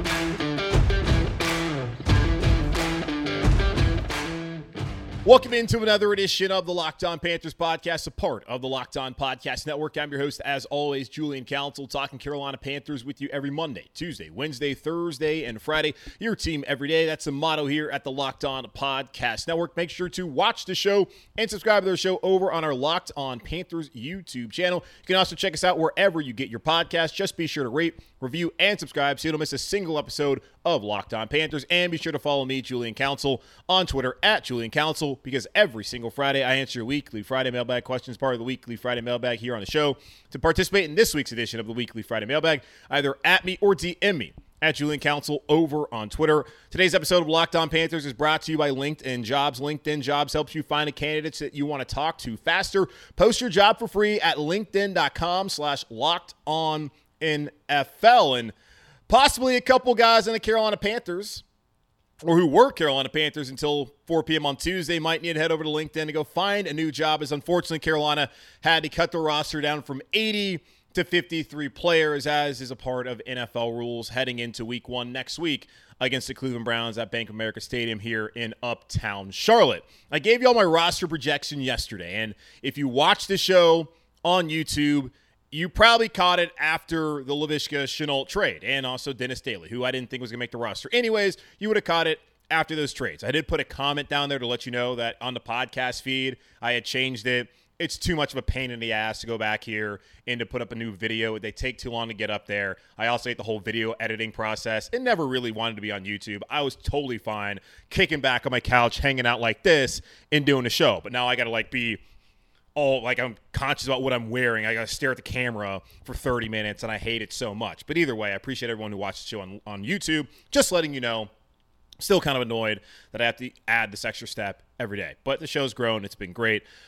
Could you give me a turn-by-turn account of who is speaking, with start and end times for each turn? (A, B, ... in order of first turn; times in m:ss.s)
0:05.2-0:58.5 A
0:59.1-1:01.4 A
1:02.2-1:52.0 A
1:52.8-2:01.3 A
2:02.0-2:06.6 A